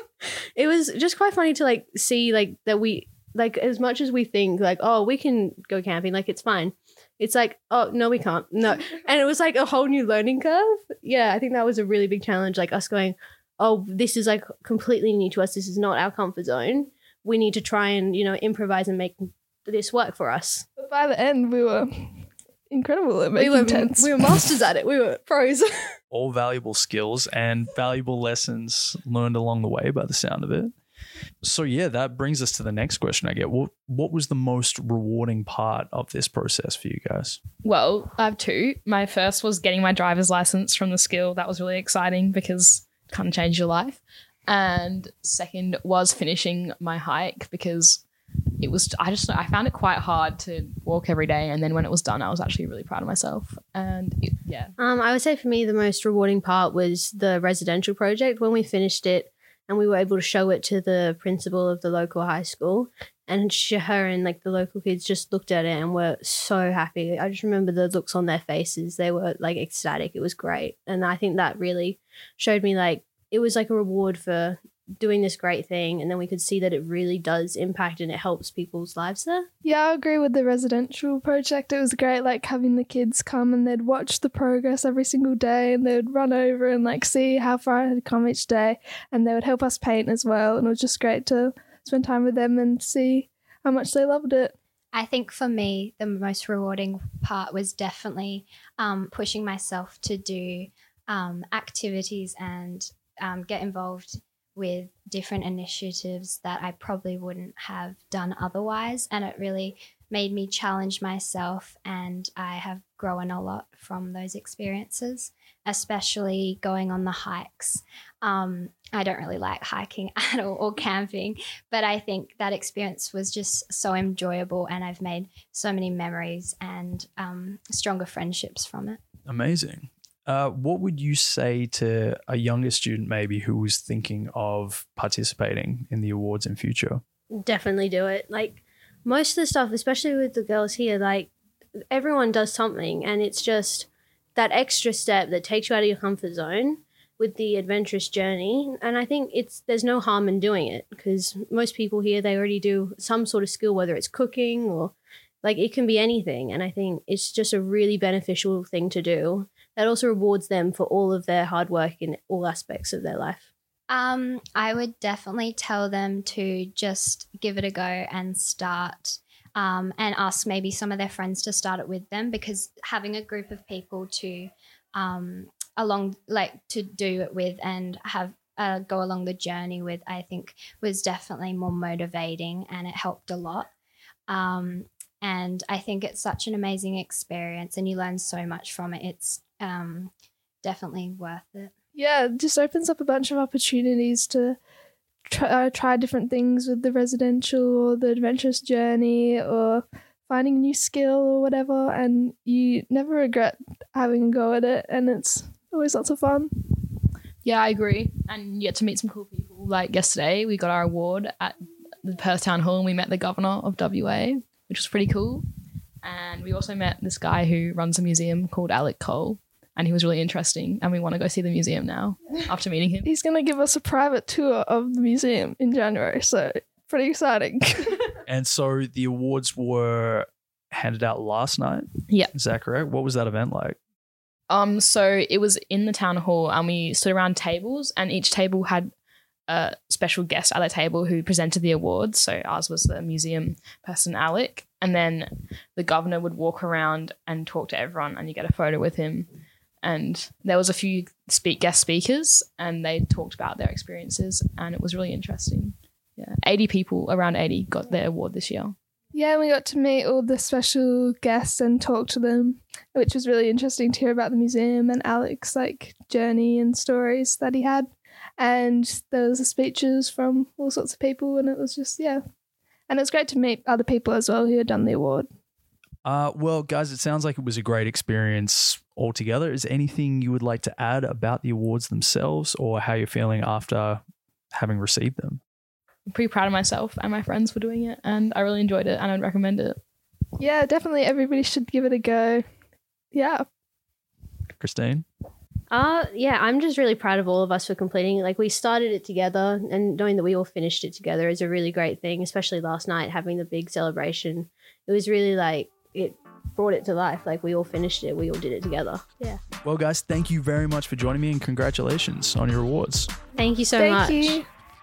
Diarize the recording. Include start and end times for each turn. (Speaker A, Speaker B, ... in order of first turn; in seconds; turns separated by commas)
Speaker A: 0.6-20.6, Speaker B: 20.8-24.1, Speaker A: 23.3-25.7, Speaker C: 26.1-30.7, Speaker C: 31.4-37.4, Speaker D: 37.6-48.0, Speaker D: 48.6-54.7, Speaker A: 54.8-79.5, Speaker B: 79.6-94.5, Speaker E: 94.9-129.0, Speaker C: 129.3-137.0, Speaker A: 137.3-141.3, Speaker A: 141.9-163.5, Speaker E: 163.9-183.7, Speaker E: 184.3-190.1, Speaker E: 190.6-191.7, Speaker B: 191.9-194.6, Speaker B: 195.3-206.7, Speaker D: 207.4-215.4, Speaker D: 216.0-223.1, Speaker B: 223.0-228.1, Speaker C: 228.2-233.8, Speaker D: 234.5-238.9, Speaker D: 239.5-249.3, Speaker D: 249.8-258.7, Speaker B: 259.1-272.2, Speaker B: 272.9-275.3, Speaker C: 276.0-285.4, Speaker D: 286.1-289.8, Speaker B: 290.4-292.4, Speaker B: 293.1-293.4, Speaker C: 294.6-295.0, Speaker A: 295.7-309.4, Speaker C: 309.6-313.1, Speaker A: 313.4-314.4, Speaker B: 313.8-314.4